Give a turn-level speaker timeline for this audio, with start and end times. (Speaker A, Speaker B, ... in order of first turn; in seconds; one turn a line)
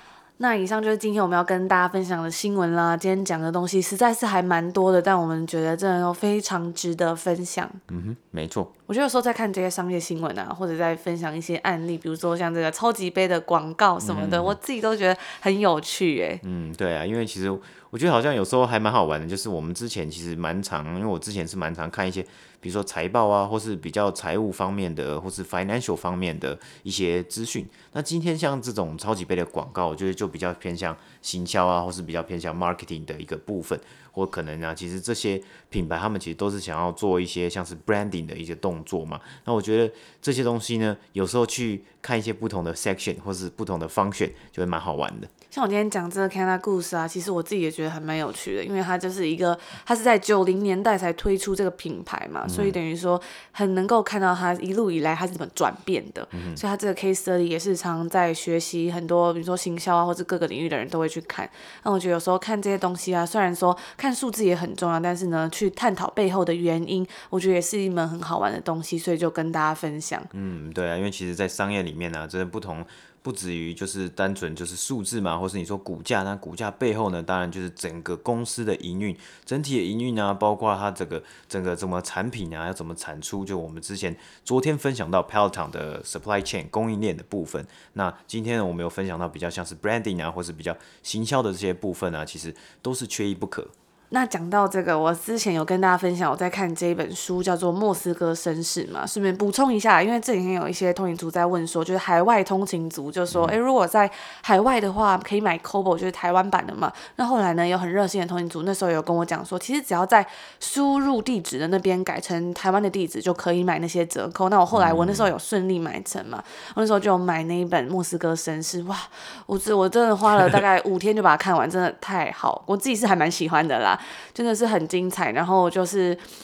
Speaker A: 0.4-7.8
Speaker B: 7.9-8.7
Speaker A: 8.9-16.4
Speaker B: 14.0-14.6
Speaker B: 16.4-45.3
Speaker A: 45.5-70.3
Speaker B: 52.5-52.8
Speaker B: 56.3-56.6
Speaker B: 70.3-93.7
Speaker A: 94.1-126.2
Speaker B: 103.3-103.6
Speaker B: 114.7-115.3